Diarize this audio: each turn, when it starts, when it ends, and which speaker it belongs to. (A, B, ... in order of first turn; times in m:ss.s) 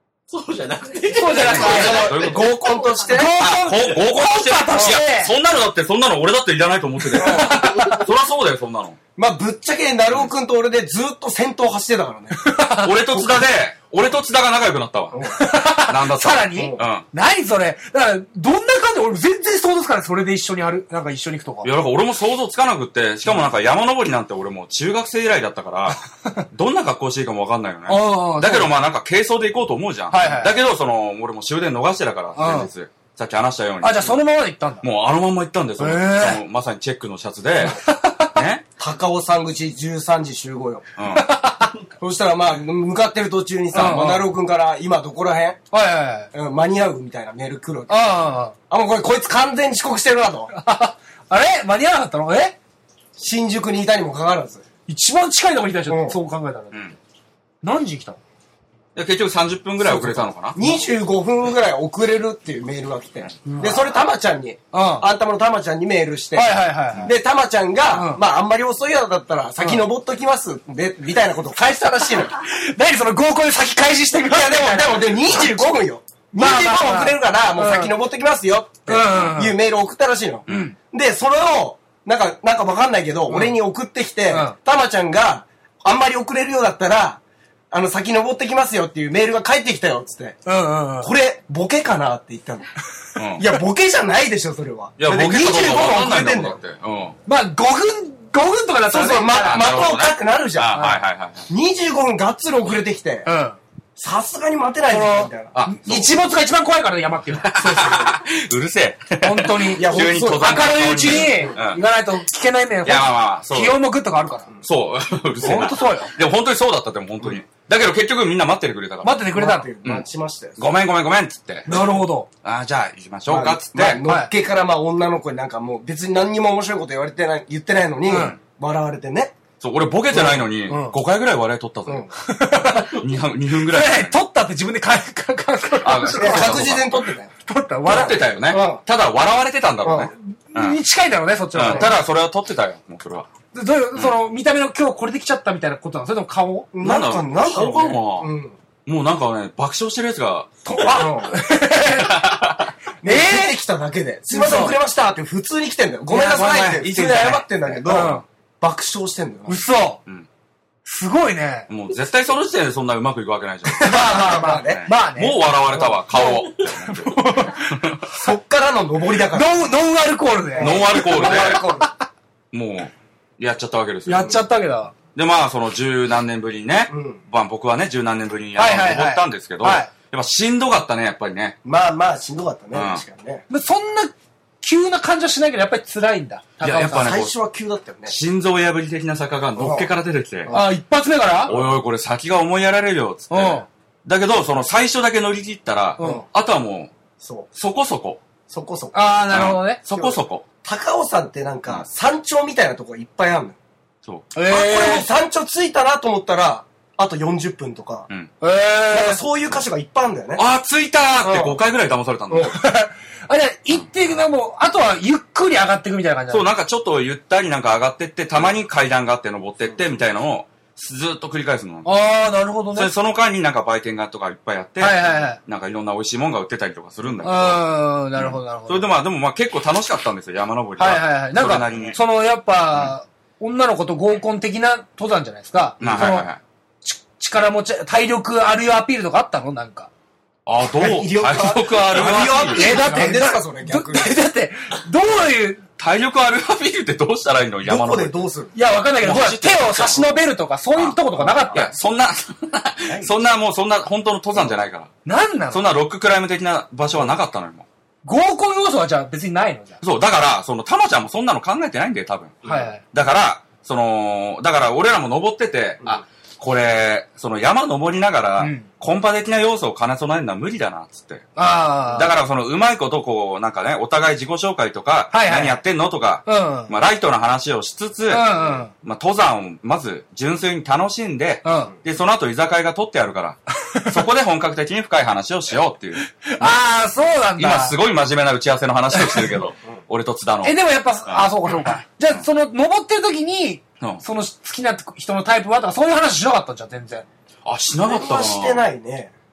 0:00.3-0:02.7 A
0:01.1-0:02.1 B
0:01.4-0:02.7 C
0:01.6-0:03.3 D
0:03.0-0:05.3 B
0:03.3-0:09.0 C
0:07.1-0:08.1 B
0:07.2-0:07.6 D
0:09.2-0:12.4 D
0:12.4-0:12.9 B
0:12.8-0:17.0 C
0:15.1-0:15.4 D
0:15.3-0:21.7 B
0:16.5-0:16.8 D
0:21.6-0:26.0 C
0:26.5-0:34.2 C
0:27.9-0:28.7 B
0:30.1-0:30.5 B
0:32.3-0:32.7 B
0:33.8-0:34.8 B
0:34.8-0:37.8 C
0:35.8-0:36.4 B
0:37.6-0:38.4 B
0:38.3-0:38.6 C
0:38.8-0:40.8 D
0:41.0-0:41.3 C
0:41.1-0:41.8 B
0:42.0-0:45.6 D
0:43.7-0:44.1 C
0:43.7-0:44.3 B
0:45.7-0:46.3 B
0:46.3-0:48.1 D
0:47.9-0:48.5 B
0:48.7-0:50.5 D
0:50.5-0:52.6 B
0:53.2-0:54.6 D
0:54.9-0:56.8 B
0:55.9-0:56.2 D
0:56.7-0:57.0 C
0:57.6-0:58.2 B
0:59.0-1:00.6 C
0:59.8-1:12.3 D
1:03.4-1:03.9 B
1:04.7-1:05.1 B
1:06.3-1:07.1 B
1:07.9-1:08.2 B
1:09.6-1:09.8 B
1:11.6-1:15.8 B
1:14.3-1:30.4 D
1:16.3-1:17.9 B
1:18.9-1:19.6 B
1:20.5-1:20.7 C
1:20.5-1:20.7 B
1:23.3-1:23.5 B
1:24.3-1:24.6 B
1:30.4-1:31.1 B
1:31.0-1:32.7 D
1:33.2-1:33.5 C
1:33.4-1:36.6 D
1:35.0-1:37.2 C
1:37.2-1:39.8 B
1:38.9-1:40.8 D
1:39.3-1:41.5 C
1:40.7-1:41.0 B
1:41.5-1:43.3 D
1:43.2-1:43.6 B
1:44.0-1:45.6 D
1:44.9-1:47.5 B
1:45.5-1:46.2 C
1:47.3-1:51.8 C
1:47.6-1:48.1 D
1:49.2-1:54.5 B
1:49.7-1:51.6 D
1:52.8-1:53.8 C
1:54.6-1:59.3 C
1:55.4-1:56.1 B
1:59.0-1:59.7 B
1:59.3-2:00.6 D
2:00.6-2:01.8 C
2:01.6-2:02.3 B
2:02.4-2:04.0 C
2:03.3-2:09.4 D
2:04.0-2:04.3 B
2:08.1-2:08.4 B
2:09.6-2:12.1 C
2:10.7-2:11.0 B
2:12.2-2:13.0 B
2:12.8-2:14.2 C
2:13.7-2:16.8 B
2:15.8-2:17.1 C
2:16.1-2:17.3 D
2:17.4-2:18.2 B
2:17.8-2:20.8 C
2:17.9-2:18.8 D
2:19.8-2:20.1 D
2:20.1-2:22.0 B
2:21.5-2:23.3 C
2:23.5-2:26.7 B
2:26.7-2:28.5 D
2:26.8-2:28.3 C
2:28.8-2:31.0 C
2:30.6-2:32.2 B
2:30.8-2:31.4 D
2:31.8-2:32.7 C
2:33.0-2:33.6 B
2:33.0-2:39.6 D
2:34.3-2:34.8 B
2:36.1-2:36.8 B
2:36.1-2:37.5 C
2:37.4-2:38.2 B
2:39.5-2:40.0 B
2:40.8-2:41.7 B
2:41.7-2:43.9 C
2:43.7-2:44.8 D
2:43.8-2:45.4 B
2:44.4-2:48.3 C
2:45.7-2:46.2 D
2:46.2-2:47.7 B
2:48.1-2:49.6 D
2:49.3-2:51.9 B
2:50.6-2:51.9 D
2:50.6-2:51.6 C
2:52.5-2:54.4 C
2:54.0-2:54.9 B
2:55.1-3:01.6 C
2:56.9-2:57.2 D
2:58.6-2:59.9 B
3:01.6-3:03.4 D
3:02.7-3:03.0 C
3:03.5-3:07.2 B
3:06.6-3:07.3 C
3:06.8-3:08.2 D
3:08.1-3:10.5 C
3:09.6-3:09.9 D
3:10.4-3:10.7 D
3:10.5-3:11.6 B
3:11.5-3:16.9 C
3:13.3-3:13.7 B
3:16.0-3:16.2 B
3:16.0-3:16.2 D
3:17.2-3:17.5 D
3:17.5-3:18.2 C
3:18.5-3:19.1 D
3:18.9-3:19.8 B
3:19.3-3:20.4 C
3:19.9-3:23.6 D
3:24.0-3:24.3 C
3:24.3-3:25.1 B
3:24.4-3:28.1 D
3:28.4-3:29.2 B
3:28.9-3:30.4 D
3:30.4-3:32.6 C
3:31.2-3:31.6 D
3:32.3-3:32.5 D
3:32.5-3:36.5 B
3:33.7-3:34.2 C
3:36.3-3:41.9 C
3:41.8-3:42.9 B
3:42.7-3:47.6 C
3:44.8-3:45.4 B
3:47.2-3:48.9 B
3:48.2-3:52.0 C
3:50.8-3:56.3 B
3:55.8-3:56.4 C
3:56.8-3:59.9 B
4:00.4-4:02.8 C
4:00.7-4:04.2 D
4:02.0-4:05.6 B
4:05.8-4:08.2 C
4:07.6-4:08.5 D
4:08.5-4:11.7 B
4:08.7-4:10.2 C
4:11.1-4:11.6 D
4:11.5-4:14.9 C
4:12.8-4:13.1 D
4:15.0-4:15.6 B
4:15.5-4:17.6 C
4:18.0-4:19.8 B
4:19.8-4:31.2 C
4:22.4-4:22.8 B
4:28.4-4:28.7 B
4:31.4-4:32.1 B
4:31.9-4:46.6 C
4:35.1-4:35.5 B
4:36.2-4:36.7 B
4:38.1-4:38.7 B
4:41.4-4:41.7 B
4:46.2-4:47.8 B
4:47.4-4:52.2 C
4:49.0-4:49.2 B
4:50.4-4:57.0 B
4:57.4-4:58.6 C
4:57.8-4:59.1 D